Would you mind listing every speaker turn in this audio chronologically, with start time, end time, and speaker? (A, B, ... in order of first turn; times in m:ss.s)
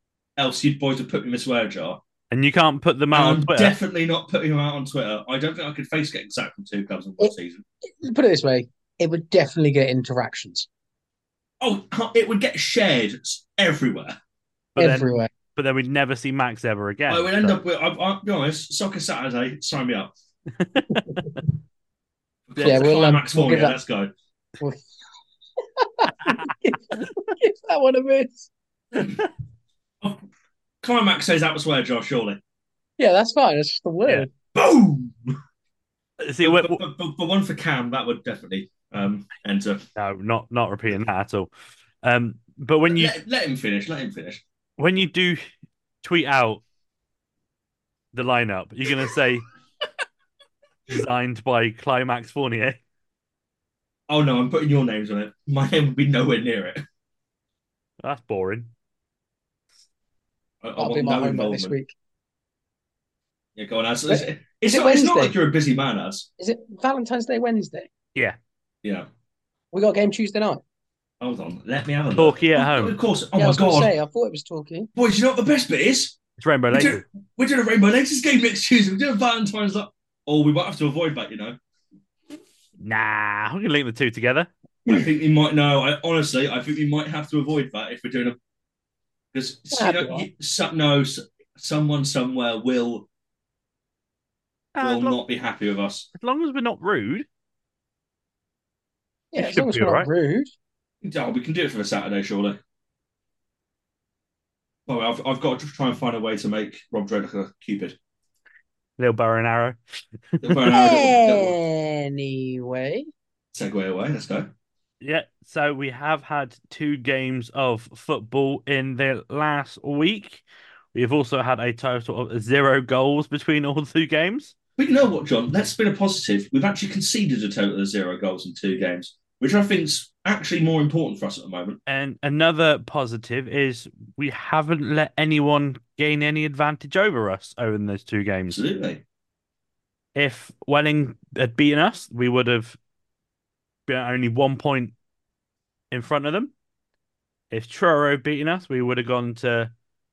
0:00.4-0:02.0 A
0:02.3-0:03.7 B
0:03.1-0:07.6 A
0:08.0-0:10.7 C
0:11.6-0:14.1 A
0:14.8-0:15.3 C
0:14.8-0:17.6 B
0:17.1-0:20.1 A
0:20.6-0:21.3 B
0:20.9-0:21.3 C
0:22.5-0:24.1 A
0:22.6-0:23.8 C
0:24.6-0:24.8 C
0:25.8-0:28.5 C
0:28.9-0:29.2 A
0:30.8-0:32.4 A
0:33.0-0:34.3 C
0:34.5-0:35.4 A
0:36.2-0:36.8 B
0:36.4-0:39.8 A
0:40.0-0:41.5 B
0:42.0-0:43.1 B
0:42.9-0:44.4 A
0:44.8-0:45.4 B
0:46.0-0:46.6 B
0:48.1-0:49.4 B
0:50.9-0:52.8 B
0:54.1-0:56.8 A
0:58.0-0:58.7 B
1:00.6-1:01.8 A
1:00.8-1:01.9 C
1:03.6-1:06.3 A
1:04.1-1:05.3 C
1:06.4-1:07.9 C
1:09.7-1:10.6 C
1:11.2-1:13.9 A
1:12.1-1:13.0 B
1:13.3-1:14.9 C
1:14.9-1:16.2 A
1:16.4-1:17.0 B
1:16.7-1:21.6 A
1:22.8-1:24.5 B
1:24.9-1:28.4 A
1:29.3-1:33.1 A
1:29.7-1:30.2 C
1:34.7-1:35.2 B
1:34.8-1:36.1 A
1:36.2-1:37.2 B
1:39.3-1:40.5 C
1:39.4-1:40.1 B
1:41.0-1:42.6 A
1:44.9-1:48.0 A
1:49.0-1:49.8 B
1:50.4-1:50.7 B
1:50.4-1:51.5 A
1:50.7-1:53.1 C
1:53.5-1:54.5 A
1:55.0-2:04.5 B
2:04.8-2:11.8 A
2:11.9-2:18.6 B
2:18.5-2:19.0 A
2:20.2-2:22.8 B
2:23.9-2:24.9 B
2:25.9-2:26.5 B
2:27.5-2:29.7 B